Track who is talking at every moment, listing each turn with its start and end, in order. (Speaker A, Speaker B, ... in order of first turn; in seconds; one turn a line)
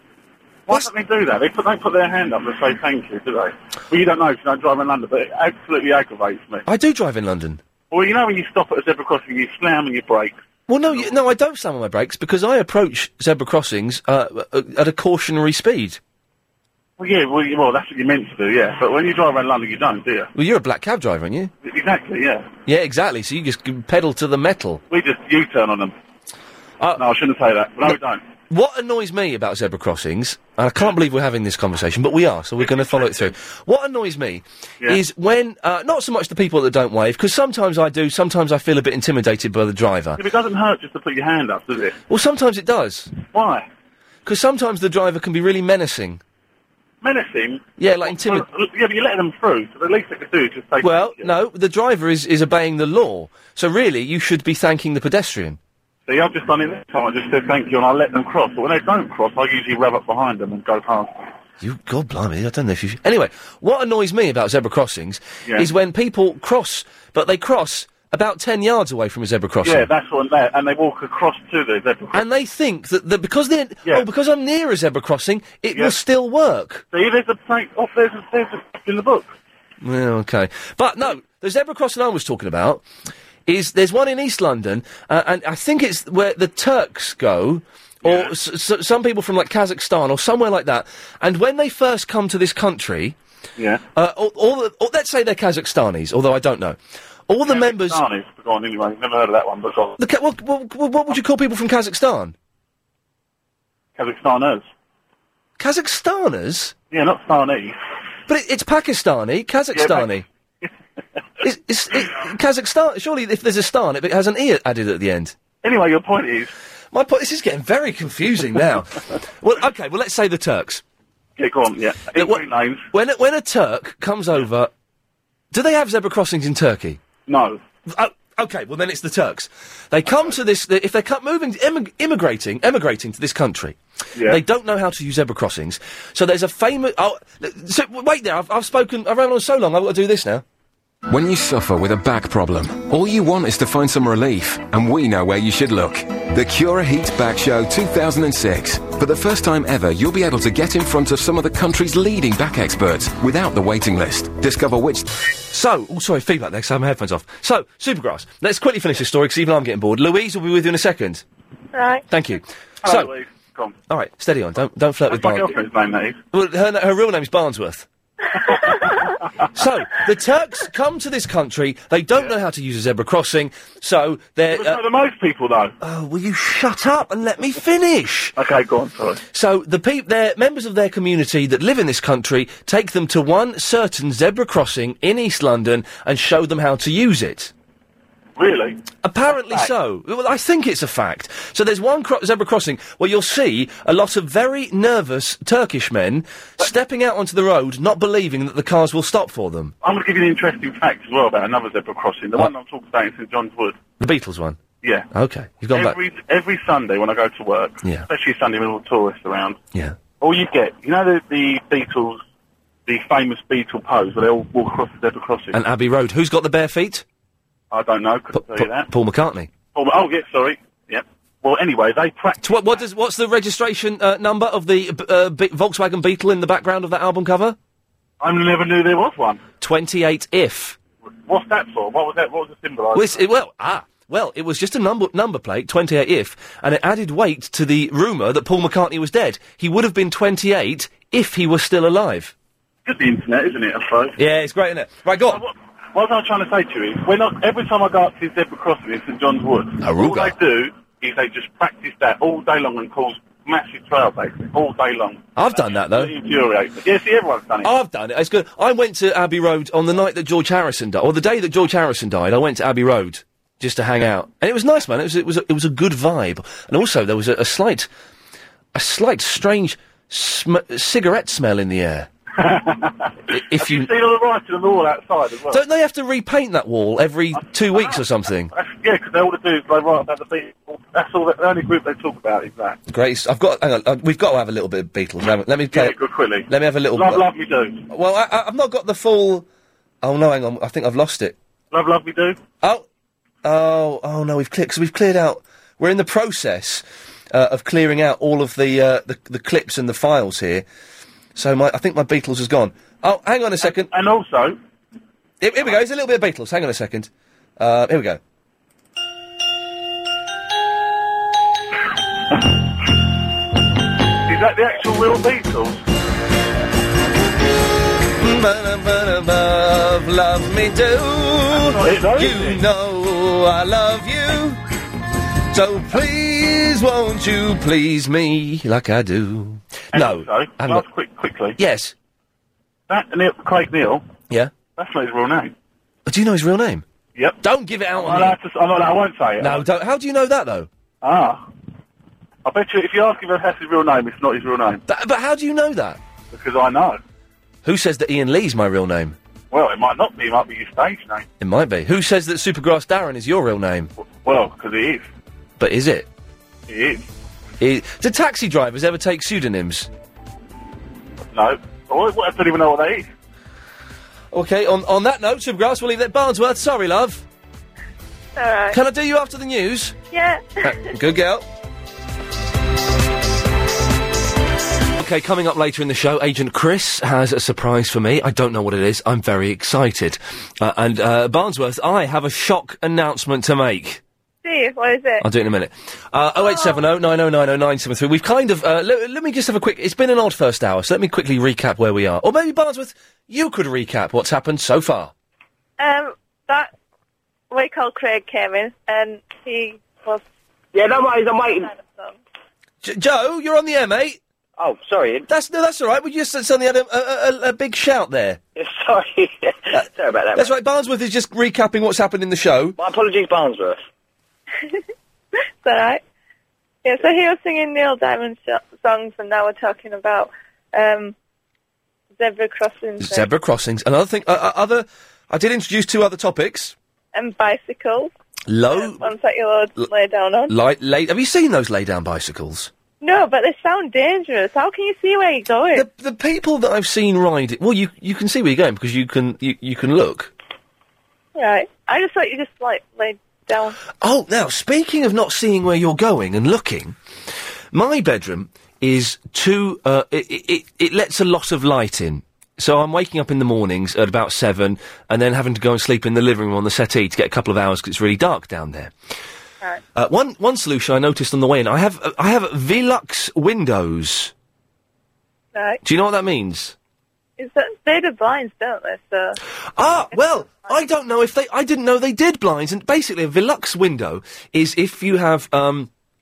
Speaker A: 0.7-6.7
Speaker B: 6.7-7.6
Speaker A: 7.9-10.4
Speaker B: 10.7-16.0
Speaker A: 17.0-20.3
Speaker B: 20.3-21.5
Speaker A: 21.6-22.5
Speaker B: 22.7-24.8
Speaker A: 24.9-25.9
Speaker A: 27.0-28.2
Speaker B: 28.5-40.2
Speaker A: 32.6-33.3
Speaker A: 40.2-42.0
Speaker B: 42.1-43.2
Speaker A: 43.2-43.7
Speaker B: 44.3-46.2
Speaker A: 47.0-51.3
Speaker B: 47.8-48.5
Speaker B: 50.8-55.6
Speaker A: 56.1-61.1
Speaker B: 61.6-69.9
Speaker A: 69.6-72.2
Speaker B: 72.1-76.9
Speaker A: 76.9-79.3
Speaker B: 79.8-82.8
Speaker B: 83.5-93.2
Speaker A: 88.0-88.3
Speaker A: 93.6-93.8
Speaker B: 94.0-96.8
Speaker B: 97.3-98.0
Speaker A: 97.4-100.0
Speaker B: 100.0-102.3
Speaker A: 104.0-104.7
Speaker B: 105.6-106.8
Speaker A: 106.9-107.8
Speaker B: 108.3-110.2
Speaker A: 109.7-110.7
Speaker B: 111.4-115.4
Speaker A: 115.6-116.5
Speaker B: 116.9-120.8
Speaker A: 121.4-122.8
Speaker B: 122.2-124.7
Speaker B: 125.5-127.0
Speaker A: 127.3-127.6
Speaker B: 127.9-140.4
Speaker A: 130.1-130.3
Speaker A: 134.2-134.4
Speaker C: 141.1-155.1
Speaker B: 155.5-161.2
Speaker D: 161.7-162.0
Speaker B: 162.1-163.1
Speaker A: 162.8-163.8
Speaker B: 163.9-165.5
Speaker A: 165.1-166.2
Speaker B: 166.3-167.9
Speaker B: 169.5-174.8
Speaker A: 174.5-175.7
Speaker B: 175.8-178.3
Speaker A: 178.4-179.2
Speaker B: 179.3-187.5
Speaker A: 188.4-189.7
Speaker B: 189.0-199.7
Speaker A: 199.8-203.8
Speaker B: 204.0-204.6
Speaker A: 204.8-205.1
Speaker B: 205.1-206.0
Speaker A: 205.7-209.6
Speaker A: 210.2-212.2
Speaker A: 212.9-215.6
Speaker B: 215.5-217.1
Speaker A: 217.7-218.9
Speaker B: 218.3-219.5
Speaker A: 219.7-222.8
Speaker B: 222.4-227.6
Speaker A: 228.2-229.4
Speaker B: 229.6-230.8
Speaker A: 231.3-233.2
Speaker B: 232.9-242.3
Speaker A: 242.9-244.2
Speaker B: 244.2-245.4
Speaker A: 245.3-257.7
Speaker B: 249.8-250.4
Speaker B: 255.4-256.1
Speaker B: 257.6-267.9
Speaker B: 268.7-272.1
Speaker A: 272.4-275.6
Speaker B: 273.3-273.9
Speaker B: 275.5-278.5
Speaker A: 277.3-282.8
Speaker B: 282.9-286.0
Speaker A: 285.7-287.9
Speaker B: 286.5-287.2
Speaker B: 287.9-289.5
Speaker B: 290.0-291.4
Speaker A: 291.7-292.4
Speaker B: 293.4-300.7
Speaker B: 301.4-303.9
Speaker A: 303.6-304.6
Speaker B: 305.4-308.2
Speaker A: 314.3-315.8
Speaker B: 318.2-324.6
Speaker A: 321.5-322.6
Speaker B: 325.5-330.9
Speaker A: 329.9-331.6
Speaker B: 331.6-331.9
Speaker A: 332.9-334.1
Speaker A: 334.7-335.5
Speaker B: 336.1-336.8
Speaker B: 337.4-338.4
Speaker A: 337.9-339.7
Speaker B: 339.4-340.7
Speaker A: 341.0-341.5
Speaker A: 342.4-344.8
Speaker B: 344.9-346.0
Speaker A: 346.3-347.0
Speaker B: 347.6-349.2
Speaker A: 349.5-351.3
Speaker B: 351.4-353.9
Speaker A: 354.2-355.1
Speaker B: 355.6-356.1
Speaker A: 356.7-357.1
Speaker B: 357.6-359.9
Speaker A: 361.3-363.1
Speaker B: 364.3-367.2
Speaker D: 368.4-368.8
Speaker B: 368.7-370.0
Speaker D: 370.1-370.9
Speaker B: 370.6-371.5
Speaker B: 375.0-384.0
Speaker D: 384.4-385.3
Speaker B: 385.2-395.1
Speaker D: 386.4-386.8
Speaker D: 395.8-396.7
Speaker D: 397.5-400.2
Speaker E: 400.7-401.7
Speaker D: 401.7-402.2
Speaker B: 402.8-404.2
Speaker E: 404.6-405.3
Speaker B: 405.3-408.4
Speaker E: 408.6-410.5
Speaker B: 409.7-412.8
Speaker E: 412.8-413.8
Speaker D: 415.6-416.0
Speaker D: 416.8-421.1
Speaker D: 422.2-423.3
Speaker B: 423.0-426.8
Speaker D: 427.1-428.1
Speaker B: 428.5-429.1
Speaker D: 428.7-430.6
Speaker B: 430.5-432.7
Speaker D: 433.0-435.9
Speaker B: 435.7-440.3
Speaker D: 441.4-443.8
Speaker B: 444.0-447.0
Speaker B: 447.7-458.9
Speaker B: 459.9-464.3
Speaker D: 465.6-465.8
Speaker B: 465.8-466.8
Speaker D: 467.4-469.4
Speaker B: 469.8-475.9
Speaker D: 470.1-470.7